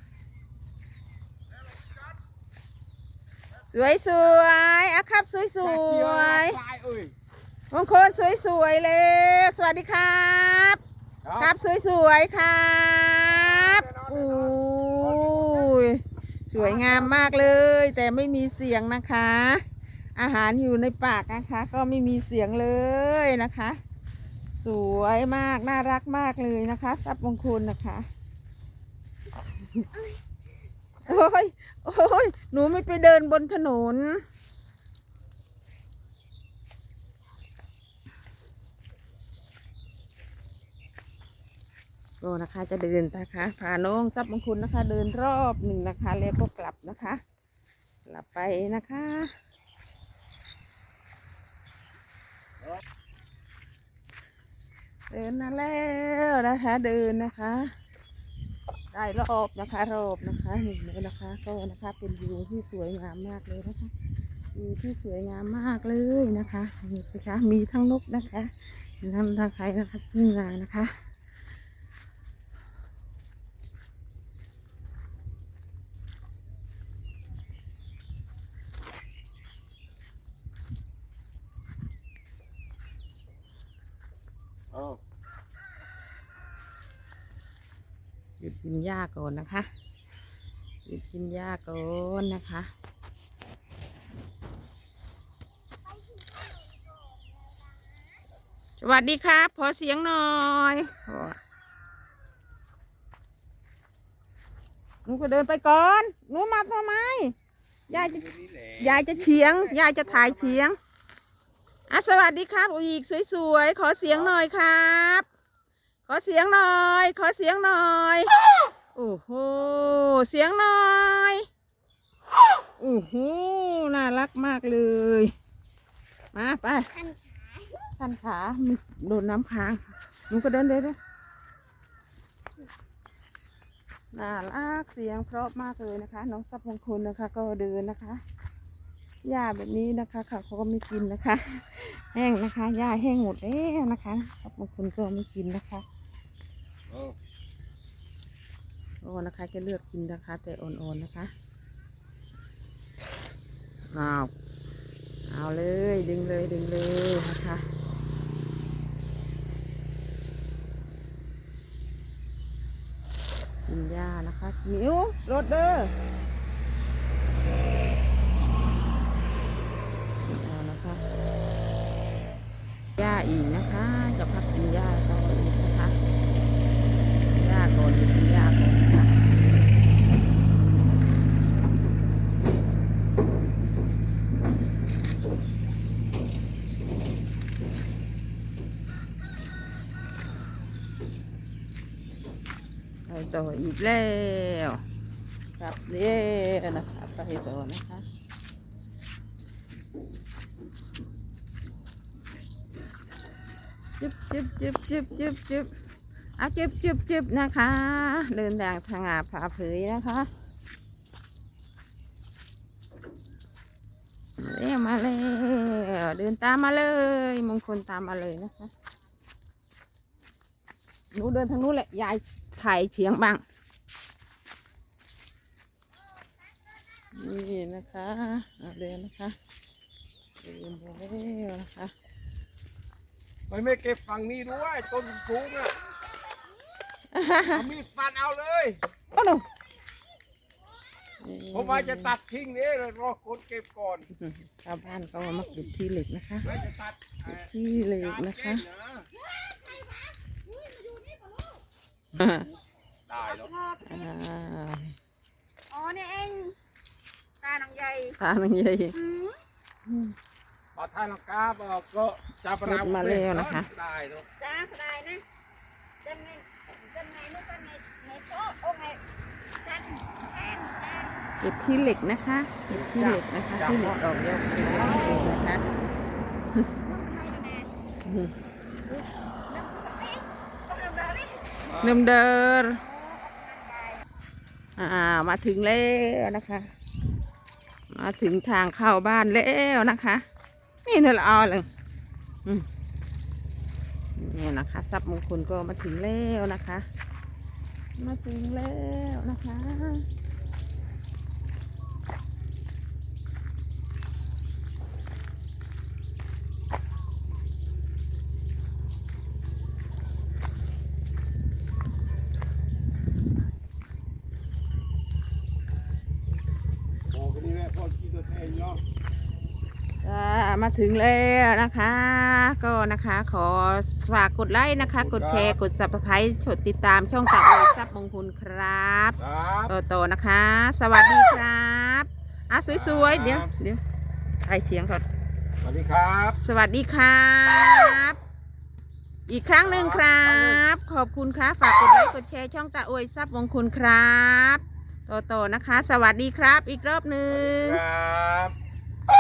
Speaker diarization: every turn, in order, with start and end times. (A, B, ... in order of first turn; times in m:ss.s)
0:03.7-0:06.6 A
0:05.6-0:07.1 B
0:07.7-0:10.8 A
0:11.2-0:11.5 B
0:11.4-0:19.6 A
0:13.3-0:15.7 B
0:16.6-0:17.5 C
0:20.2-0:23.8 A
0:24.6-0:28.0 A
0:31.0-0:34.2 A
0:42.2-0:47.2 A
0:48.1-0:49.3 A
0:55.1-0:57.7 A
0:58.9-1:03.9 A
1:04.5-1:10.9 A
1:24.7-1:25.0 B
1:28.4-1:29.7 A
1:30.9-1:32.7 A
1:35.9-1:37.4 C
1:38.8-1:41.4 A
1:45.1-1:47.3 A
1:47.9-1:48.2 A
1:47.9-1:50.6 B
1:48.8-1:50.8 A
1:51.9-1:55.3 A
1:54.1-1:54.4 B
1:56.1-1:58.4 A
1:58.9-2:01.4 A
2:02.8-2:05.3 A
2:06.3-2:06.9 A
2:06.9-2:07.8 C
2:08.0-2:11.0 A
2:14.1-2:18.2 A
2:19.2-2:25.8 A
2:26.9-2:27.2 B
2:29.0-2:31.3 A
2:33.9-2:34.3 A
2:35.3-2:37.6 A
2:43.7-2:45.9 A
2:50.2-2:51.0 A
2:53.0-2:56.0 A
2:57.3-2:59.2 A
3:13.1-3:14.8 A
3:15.6-3:18.0 A
3:24.0-3:25.7 A
3:26.4-3:30.3 A
3:34.4-3:38.7 A
3:41.1-3:43.4 A
3:47.1-3:49.4 A
3:50.4-3:51.9 A
3:53.5-3:55.7 B
3:57.1-3:57.7 A
3:57.5-3:58.8 B
3:59.1-3:59.4 A
4:01.2-4:02.2 A
4:01.5-4:04.1 B
4:04.1-4:06.6 A
4:06.4-4:09.1 B
4:07.4-4:08.7 A
4:09.4-4:11.5 C
4:12.1-4:12.5 A
4:13.1-4:13.5 B
4:13.3-4:14.0 C
4:13.8-4:15.0 A
4:15.7-4:16.6 C
4:17.4-4:18.1 C
4:18.2-4:18.9 A
4:19.0-4:19.4 C
4:19.9-4:20.1 A
4:20.8-4:24.3 B
4:22.6-4:23.7 A
4:24.4-4:25.2 C
4:26.0-4:29.0 C
4:29.6-4:31.2 C
4:31.4-4:35.6 A
4:32.7-4:34.0 B
4:36.8-4:37.7 C
4:38.0-4:38.3 A
4:39.5-4:41.5 C
4:41.7-4:42.0 B
4:41.8-4:42.8 A
4:42.8-4:44.0 C
4:44.8-4:46.7 A
4:47.9-4:50.2 A
4:50.8-4:51.7 A
4:54.2-4:56.8 A
4:58.0-5:00.0 A
5:17.1-5:18.8 B
5:20.0-5:33.8 A
5:24.8-5:25.6 B
5:29.2-5:29.7 B
5:32.7-5:33.5 B
5:34.4-5:35.0 A
5:35.6-5:36.4 B
5:36.4-5:38.2 A
5:39.3-5:47.8 A
5:39.6-5:40.6 B
5:47.3-5:48.5 B